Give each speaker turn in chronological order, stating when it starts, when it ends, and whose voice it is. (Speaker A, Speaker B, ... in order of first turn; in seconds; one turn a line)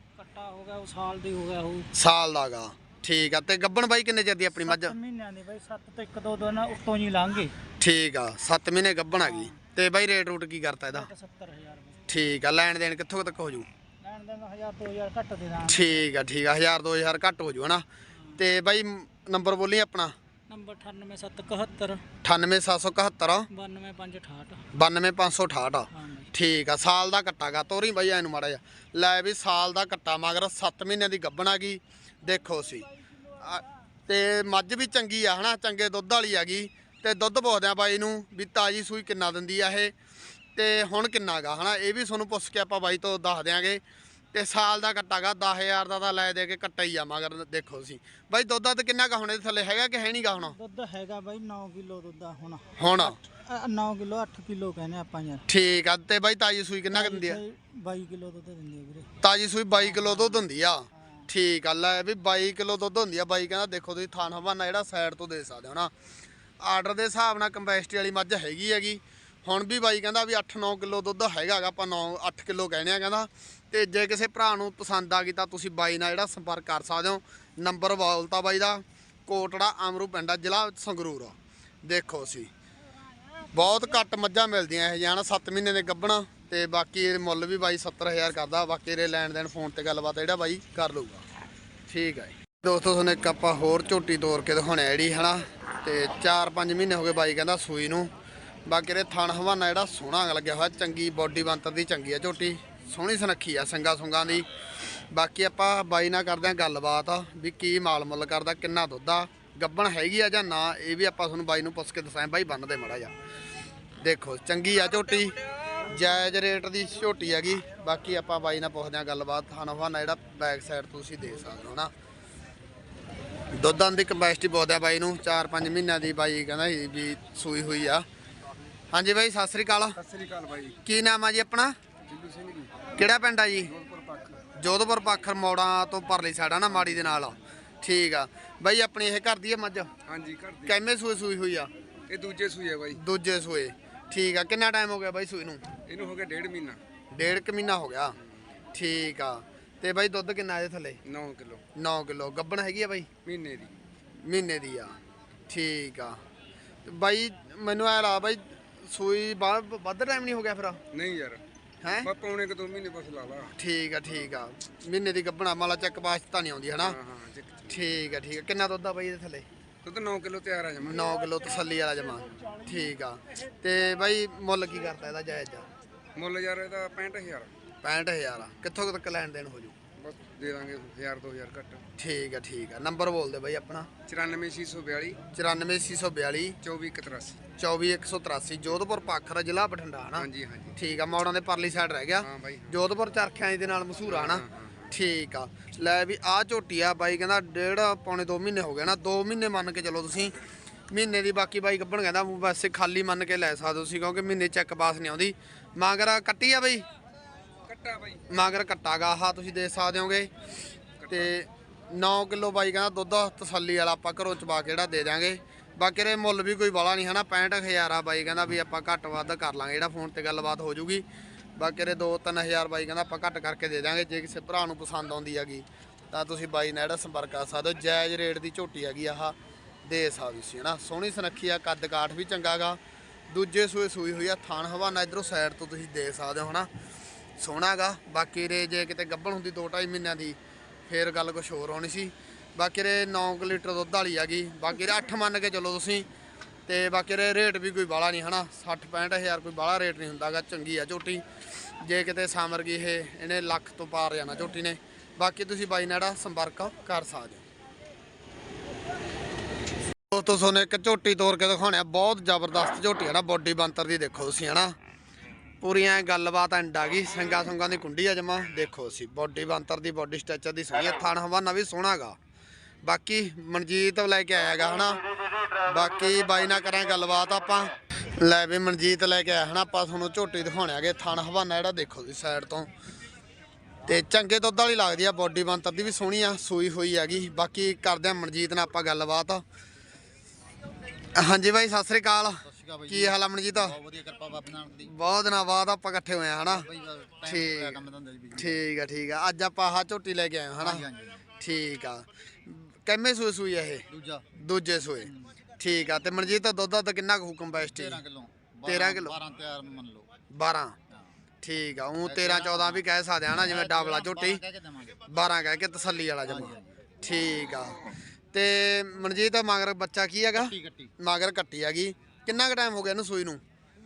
Speaker A: 0.2-1.9
Speaker B: 1.9-4.9
Speaker A: 4.7-7.5
Speaker B: 7.8-11.1
Speaker A: 9.2-9.6
Speaker A: 10.9-12.0
Speaker B: 12.1-13.7
Speaker A: 14.0-16.0
Speaker B: 15.7-17.8
Speaker B: 18.4-20.1
Speaker A: 20.5-22.0
Speaker B: 22.2-23.5
Speaker A: 23.5-24.6
Speaker B: 24.7-32.9
Speaker A: 25.9-26.3
Speaker B: 33.4-39.9
Speaker B: 40.5-43.8
Speaker B: 44.3-50.5
Speaker A: 50.3-55.4
Speaker B: 52.8-53.1
Speaker B: 55.5-57.4
Speaker A: 56.9-59.1
Speaker B: 59.2-65.9
Speaker A: 59.8-61.2
Speaker B: 66.6-82.5
Speaker B: 83.5-91.2
Speaker B: 91.9-98.1
Speaker B: 98.7-104.5
Speaker B: 105.1-113.1
Speaker B: 114.0-121.9
Speaker B: 123.5-128.0
Speaker B: 128.9-130.0
Speaker C: 129.9-130.8
Speaker B: 130.8-131.7
Speaker C: 132.1-132.7
Speaker B: 133.0-133.7
Speaker C: 133.7-134.4
Speaker B: 134.6-139.9
Speaker C: 140.1-140.8
Speaker B: 140.7-141.7
Speaker C: 142.1-143.0
Speaker B: 142.9-145.6
Speaker C: 145.9-146.8
Speaker B: 147.1-148.1
Speaker B: 148.7-151.0
Speaker C: 151.0-151.6
Speaker B: 151.8-153.1
Speaker C: 153.2-153.7
Speaker B: 154.2-154.9
Speaker B: 155.5-156.2
Speaker B: 156.8-160.8
Speaker C: 160.9-161.4
Speaker B: 161.8-162.1
Speaker C: 162.0-163.5
Speaker B: 163.6-167.0
Speaker C: 166.8-167.9
Speaker B: 167.7-169.5
Speaker C: 169.8-171.0
Speaker B: 170.8-175.7
Speaker C: 176.1-177.5
Speaker B: 177.8-179.7
Speaker C: 180.0-181.8
Speaker B: 182.0-183.9
Speaker C: 184.1-185.2
Speaker B: 185.3-186.6
Speaker C: 186.6-187.4
Speaker B: 187.6-200.3
Speaker C: 190.2-190.8
Speaker C: 192.2-192.8
Speaker C: 194.1-194.9
Speaker B: 200.9-206.8
Speaker C: 207.7-208.2
Speaker B: 208.3-210.3
Speaker B: 211.1-221.0
Speaker B: 221.6-232.8
Speaker B: 233.3-236.7
Speaker B: 237.4-246.1
Speaker B: 246.7-251.2
Speaker B: 251.8-257.4
Speaker B: 260.1-264.7
Speaker B: 265.6-272.1
Speaker B: 272.8-275.0
Speaker B: 275.6-282.7
Speaker B: 283.9-289.4
Speaker B: 291.1-293.8
Speaker D: 292.4-294.9
Speaker B: 294.8-296.7
Speaker D: 296.5-298.6
Speaker B: 297.2-297.8
Speaker B: 298.3-300.9
Speaker D: 300.6-301.2
Speaker B: 301.4-308.0
Speaker D: 303.9-304.2
Speaker D: 305.0-305.3
Speaker D: 307.5-310.1
Speaker B: 308.6-309.2
Speaker B: 310.3-310.8
Speaker B: 311.4-314.4
Speaker D: 312.0-315.0
Speaker B: 315.1-323.4
Speaker D: 316.2-316.7
Speaker D: 320.3-320.9